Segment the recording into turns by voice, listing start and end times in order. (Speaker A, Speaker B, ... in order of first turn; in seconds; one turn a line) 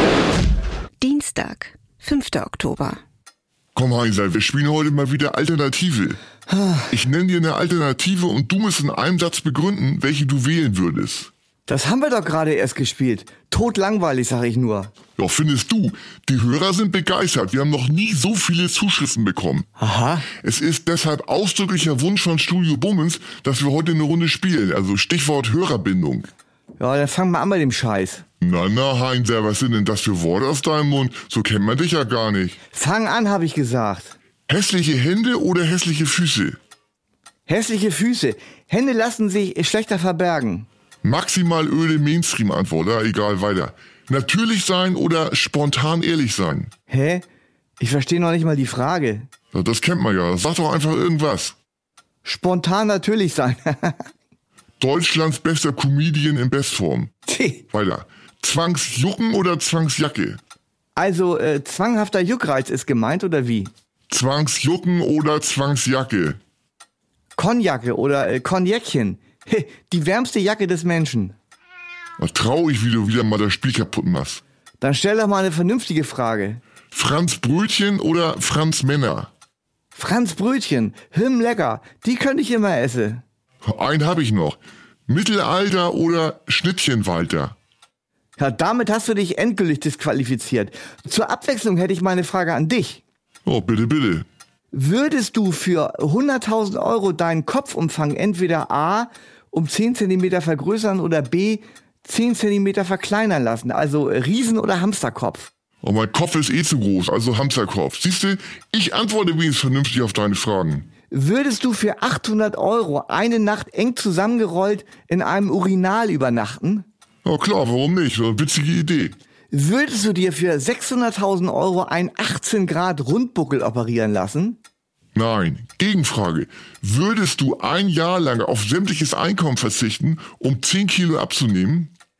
Speaker A: 1.0-3.0
Speaker B: 3.8-6.2
Speaker C: 6.5-6.9
Speaker B: 6.9-11.3
Speaker C: 11.7-14.9
Speaker B: 15.2-19.7
Speaker C: 19.8-20.3
Speaker B: 20.4-26.3
Speaker C: 26.8-28.2
Speaker B: 28.4-32.6
Speaker C: 32.7-34.1
Speaker B: 34.5-36.6
Speaker C: 37.5-40.7
Speaker B: 41.0-46.7
Speaker C: 46.9-47.2
Speaker C: 47.8-49.3
Speaker B: 49.5-51.6
Speaker C: 52.2-54.0
Speaker B: 54.8-57.1
Speaker C: 57.3-57.6
Speaker B: 57.7-60.4
Speaker C: 61.0-63.7
Speaker B: 64.1-66.4
Speaker C: 67.4-71.3
Speaker B: 72.2-74.4
Speaker C: 74.8-76.6
Speaker B: 76.9-79.3
Speaker C: 80.0-83.2
Speaker B: 83.6-87.5
Speaker C: 88.4-93.0
Speaker B: 93.5-94.3
Speaker C: 94.7-105.5
Speaker B: 105.8-110.9
Speaker C: 111.1-116.9
Speaker B: 117.2-119.2
Speaker C: 119.5-124.6
Speaker B: 125.2-131.9